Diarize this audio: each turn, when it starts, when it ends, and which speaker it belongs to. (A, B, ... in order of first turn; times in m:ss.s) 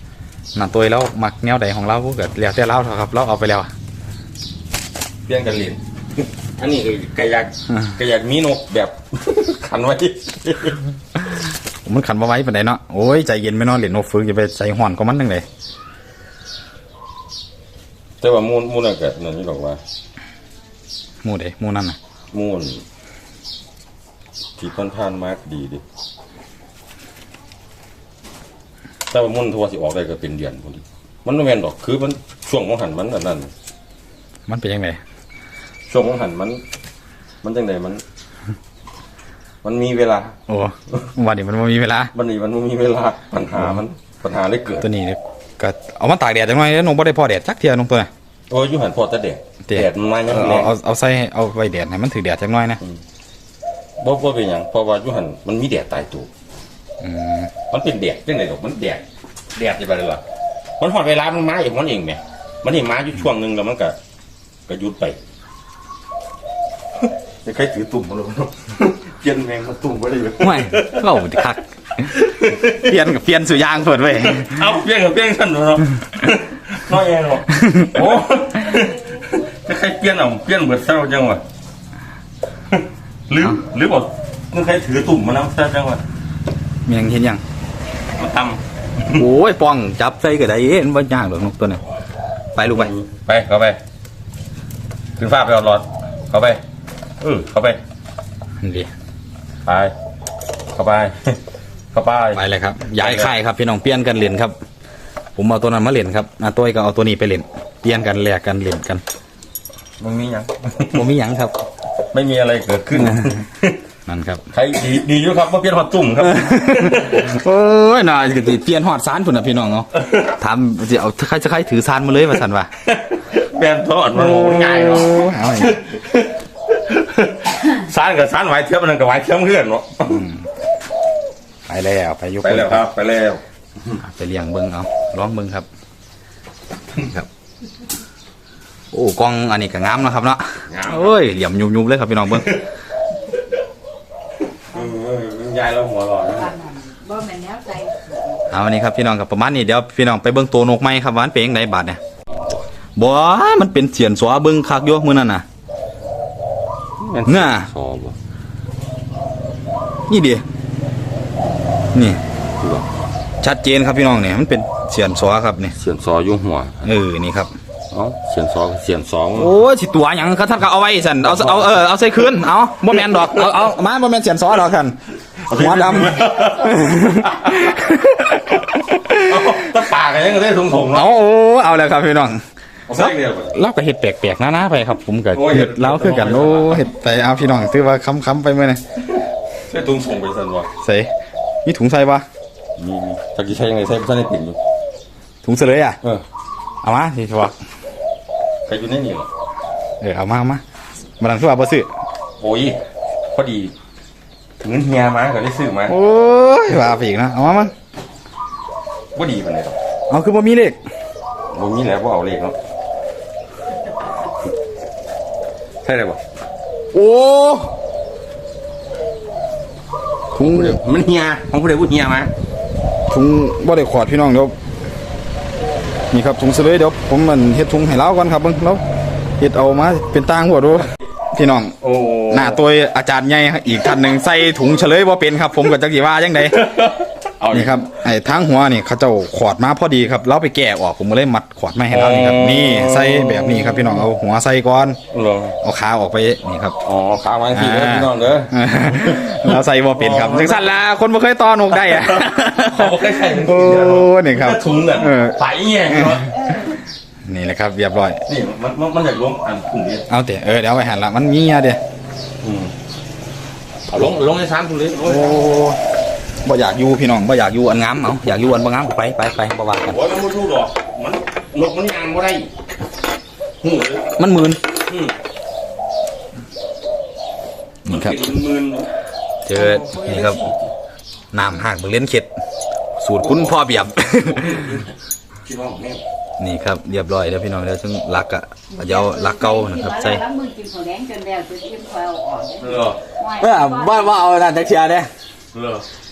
0:00.5-0:03.7 A
0:05.3-0:05.8 B
0:06.6-0:10.8 B
0:11.8-0:15.5 A
0:18.2-0:19.8 B
0:21.2-0:22.0 A
0:22.3-0:22.8 B
0:24.6-0:25.8 B
0:29.1-0:33.5 B
0:34.5-0:35.0 A
0:35.9-0:36.6 B
0:37.4-0:38.0 B
0:39.6-0:40.3 B
0:40.5-0:42.1 A
0:42.1-0:44.9 B
0:44.8-0:48.1 A
0:48.5-0:50.7 B
0:49.7-0:52.8 A
0:54.0-0:56.3 B
0:57.0-0:57.5 A
0:57.7-0:59.0 B
0:59.6-1:00.2 B
1:00.8-1:04.0 B
1:04.7-1:05.2 B
1:07.4-1:11.4 B
1:10.4-1:14.8 A
1:12.0-1:12.9 B
1:14.2-1:21.4 B
1:17.6-1:18.1 A
1:22.7-1:26.0 B
1:26.9-1:27.4 A
1:28.2-1:29.2 B
1:29.1-1:31.8 A
1:32.6-1:32.9 A
1:32.6-1:33.8 B
1:35.2-1:36.6 B
1:37.2-1:37.8 B
1:38.6-1:38.9 A
1:39.6-1:39.9 B
1:40.8-1:41.4 B
1:41.9-1:42.4 B
1:42.4-1:44.5 A
1:42.9-1:43.3 B
1:45.4-1:49.0 A
1:50.0-1:51.1 B
1:50.9-1:51.5 A
1:52.1-1:53.8 B
1:53.0-1:53.4 A
1:54.1-1:54.4 A
1:54.5-1:57.3 B
1:56.2-2:02.7 A
2:00.0-2:00.3 B
2:02.8-2:10.2 B
2:04.1-2:05.8 A
2:10.1-2:10.5 A
2:11.7-2:12.8 A
2:12.4-2:14.0 B
2:14.0-2:15.7 A
2:17.0-2:17.3 A
2:18.9-2:22.6 A
2:20.7-2:21.1 B
2:22.3-2:22.7 B
2:24.7-2:26.5 B
2:26.4-2:28.4 C
2:28.5-2:32.0 A
2:33.0-2:35.4 A
2:37.0-2:38.2 B
2:37.3-2:37.7 A
2:40.1-2:40.4 A
2:41.9-2:42.2 A
2:42.6-2:42.9 B
2:43.4-2:45.7 A
2:45.7-2:46.9 B
2:46.8-2:47.5 A
2:47.9-2:49.6 B
2:49.4-2:55.0 A
2:51.3-2:51.8 B
2:52.9-2:53.5 B
2:55.4-2:57.7 B
2:55.5-2:59.6 A
2:59.1-3:01.1 B
3:00.9-3:08.8 A
3:02.9-3:03.6 B
3:05.3-3:06.9 B
3:09.1-3:10.7 B
3:10.8-3:11.1 A
3:11.6-3:12.3 A
3:12.8-3:14.6 B
3:15.4-3:16.0 A
3:16.8-3:17.6 A
3:18.7-3:19.3 B
3:20.0-3:20.6 A
3:21.2-3:21.9 A
3:22.4-3:22.8 B
3:23.3-3:23.7 B
3:24.6-3:26.0 B
3:25.9-3:27.7 A
3:29.2-3:29.8 B
3:30.1-3:30.8 A
3:31.5-3:32.6 B
3:35.8-3:36.2 B
3:36.9-3:37.7 A
3:40.4-3:40.8 A
3:40.4-3:42.3 B
3:43.1-3:44.5 A
3:46.1-3:48.8 A
3:49.4-3:51.8 A
3:51.8-3:52.6 B
3:52.3-3:56.6 A
3:56.4-3:57.8 B
3:57.5-4:05.0 A
4:01.9-4:04.0 B
4:05.1-4:05.6 B
4:05.6-4:06.8 A
4:06.8-4:10.8 B
4:07.5-4:15.4 A
4:11.7-4:16.5 B
4:16.0-4:16.2 A
4:17.2-4:18.2 A
4:18.3-4:20.1 B
4:20.1-4:21.8 A
4:22.4-4:22.7 B
4:23.9-4:25.4 B
4:25.0-4:25.8 A
4:26.4-4:30.0 A
4:29.8-4:32.5 B
4:33.6-4:34.1 B
4:34.2-4:34.6 A
4:34.9-4:35.1 B
4:37.8-4:38.3 A
4:37.9-4:38.9 B
4:39.5-4:40.4 A
4:39.5-4:40.7 B
4:41.3-4:42.3 A
4:43.0-4:44.7 A
4:43.2-4:46.0 B
4:46.4-4:50.2 A
4:48.8-4:54.1 C
4:52.6-4:53.0 B
4:53.4-4:55.1 A
4:55.5-4:55.8 B